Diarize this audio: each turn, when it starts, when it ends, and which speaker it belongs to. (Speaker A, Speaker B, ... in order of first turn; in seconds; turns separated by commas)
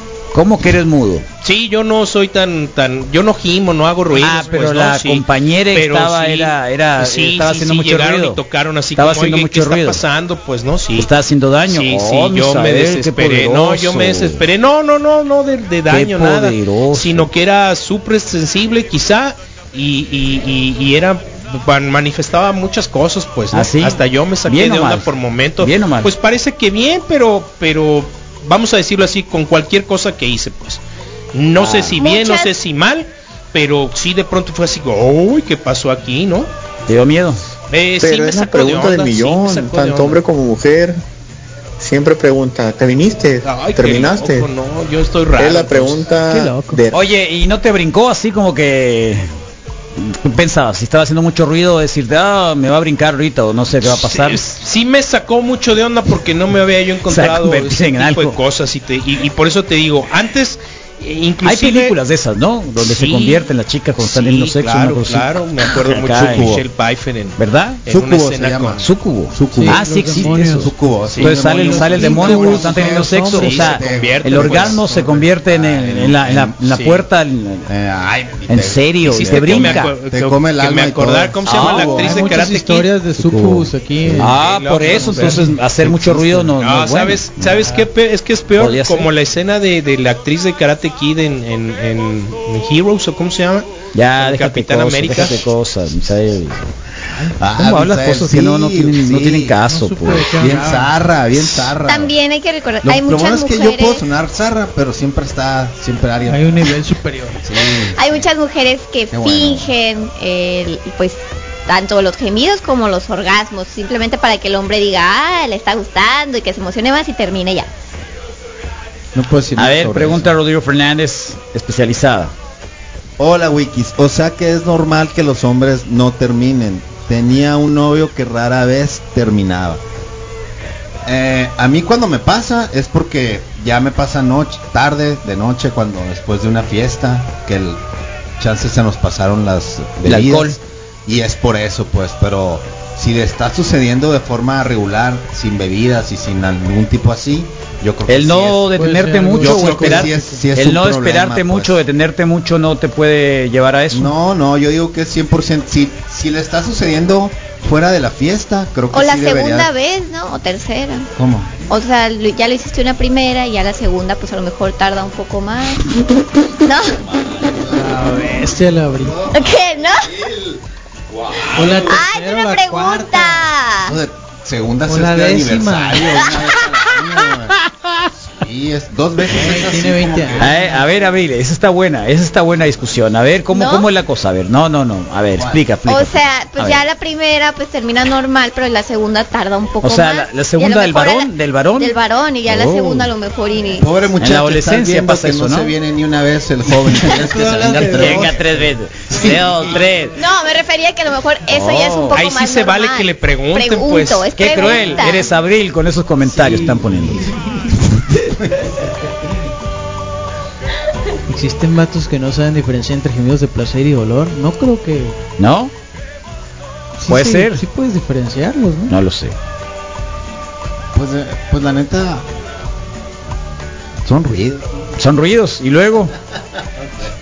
Speaker A: 0.3-1.2, Speaker B: 1.4-11.1, Speaker A: 4.1-8.4, Speaker A: 8.9-10.0, Speaker A: 11.0-14.4, Speaker B: 11.7-30.8, Speaker A: 15.9-17.3, Speaker A: 23.5-25.1, Speaker A: 25.6-26.1, Speaker B: 31.3-36.5, Speaker A: 31.6-32.0, Speaker C: 32.0-32.5, Speaker A: 36.9-37.4, Speaker B: 37.7-40.2, Speaker D: 38.0-41.0, Speaker D: 41.8-44.5, Speaker B: 43.4-46.0, Speaker D: 45.3-47.1, Speaker E: 46.2-46.8, Speaker A: 46.9-49.3, Speaker A: 50.0-54.4, Speaker B: 53.8-62.0, Speaker A: 57.1-58.4, Speaker A: 61.4-66.6, Speaker B: 62.8-63.5, Speaker B: 64.0-68.8, Speaker A: 67.4-67.8, Speaker F: 67.8-76.7, Speaker A: 68.8-77.7, Speaker E: 69.5-70.7, Speaker B: 71.1-74.9, Speaker E: 71.8-72.8, Speaker B: 76.7-77.0, Speaker F: 77.7-82.0, Speaker A: 78.5-79.9, Speaker B: 79.0-82.9, Speaker A: 81.5-82.1, Speaker E: 81.7-84.4, Speaker A: 84.1-87.2, Speaker B: 84.2-85.6, Speaker E: 85.0-85.5, Speaker F: 85.8-86.5, Speaker B: 86.5-95.4, Speaker F: 87.4-87.7, Speaker A: 88.6-89.1, Speaker A: 93.9-96.7, Speaker F: 97.3-99.6, Speaker A: 97.6-100.3, Speaker E: 99.6-100.9, Speaker F: 100.3-102.1, Speaker C: 101.8-104.0, Speaker F: 102.8-106.7, Speaker E: 106.2-107.5, Speaker F: 107.4-108.2, Speaker C: 107.7-117.7, Speaker F: 109.1-109.7, Speaker F: 119.1-120.3, Speaker A: 119.5-122.3, Speaker F: 123.2-129.8, Speaker F: 131.0-137.8, Speaker F: 138.4-148.8, Speaker A: 140.0-140.6, Speaker A: 148.1-154.1, Speaker E: 148.8-150.4, Speaker F: 149.4-151.8, Speaker F: 153.9-159.7, Speaker C: 158.9-161.1, Speaker F: 161.2-161.5, Speaker C: 161.7-167.0, Speaker F: 167.0-168.1, Speaker E: 167.7-169.3, Speaker F: 169.0-172.0, Speaker C: 169.3-170.1, Speaker E: 171.5-173.5, Speaker C: 171.8-173.9, Speaker F: 173.8-177.6, Speaker E: 174.9-176.4, Speaker F: 178.2-180.6, Speaker E: 179.3-180.9, Speaker A: 180.4-186.8, Speaker C: 183.5-183.9, Speaker F: 185.3-185.7, Speaker C: 185.8-193.9, Speaker A: 189.8-192.0, Speaker A: 192.5-193.0, Speaker F: 192.6-193.0, Speaker F: 193.8-199.9, Speaker A: 194.2-195.7, Speaker A: 196.8-200.2, Speaker E: 197.2-198.3, Speaker C: 200.1-205.3, Speaker A: 201.5-202.2, Speaker B: 202.1-204.3, Speaker A: 204.3-207.2, Speaker F: 206.3-207.4, Speaker E: 211.3-215.2, Speaker A: 215.4-215.7, Speaker E: 217.0-218.9, Speaker A: 217.1-217.6, Speaker A: 218.9-219.3, Speaker F: 220.9-222.2, Speaker F: 224.0-224.8, Speaker A: 225.0-226.1